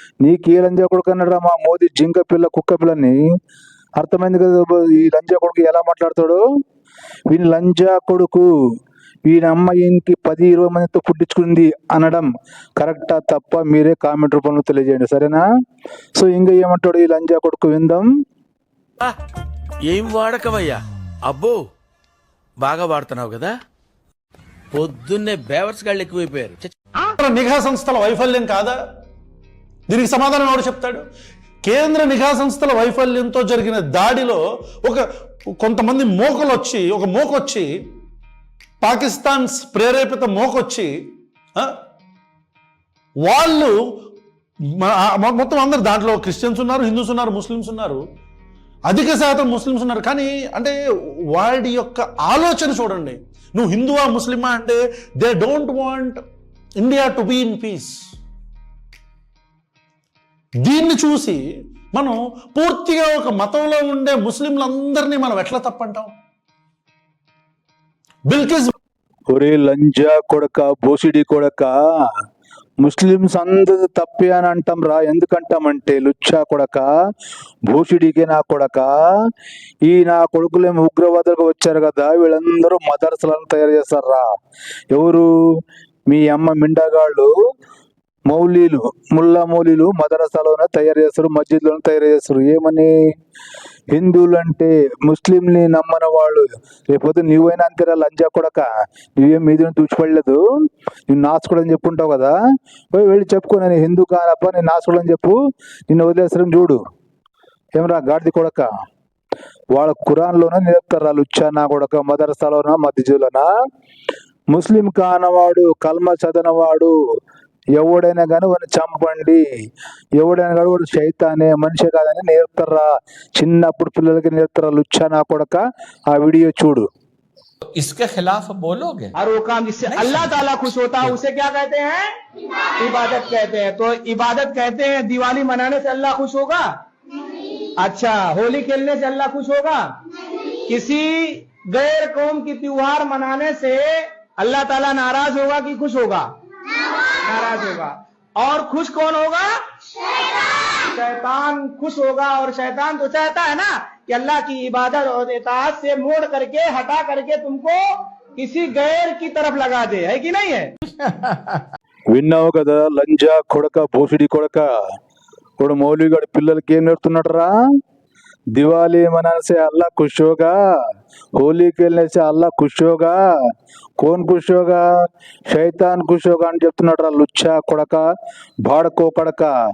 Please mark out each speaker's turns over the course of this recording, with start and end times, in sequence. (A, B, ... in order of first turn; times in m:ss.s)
0:00.2-0:03.2 A
0:04.0-0:06.4 A
0:07.3-0:08.5 A
0:09.3-0:15.4 A
0:16.2-0:18.1 A
0:19.8-0:21.7 B
0:22.6-0:23.6 B
0:24.7-0:26.7 B
0:27.2-0:28.8 C
0:29.9-0:31.0 C
0:31.7-0:35.0 C
0:35.6-0:37.7 C
0:38.8-0:40.9 C
0:43.3-0:43.7 C
0:44.8-0:48.0 C
0:48.9-0:50.8 C
0:51.4-0:56.2 C
0:56.8-0:57.9 C
1:00.6-1:01.4 C
1:02.0-1:06.1 C
1:08.3-1:08.7 C
1:09.3-1:11.8 A
1:12.8-1:16.9 A
1:17.7-1:18.9 A
1:19.9-1:24.3 A
1:24.9-1:25.3 A
1:26.1-1:27.3 A
1:28.3-1:32.9 A
1:33.9-1:38.6 A
1:39.2-1:40.4 A
1:41.1-1:42.3 A
1:42.9-1:45.4 A
1:45.9-1:46.8 A
1:47.8-1:48.7 A
1:49.7-1:53.5 A
1:54.5-1:56.9 A
1:57.8-1:59.4 A
2:00.2-2:06.9 A
2:07.7-2:09.2 D
2:09.1-2:12.1 E
2:09.8-2:11.2 D
2:12.8-2:16.8 E
2:17.8-2:20.0 E
2:20.7-2:26.3 E
2:27.2-2:29.6 E
2:30.4-2:41.6 E
2:42.1-2:44.7 A
2:45.6-2:47.5 A
2:48.6-2:50.6 A
2:51.4-2:53.2 A
2:54.0-2:54.8 A
2:55.5-2:58.0 A
2:58.6-2:59.5 A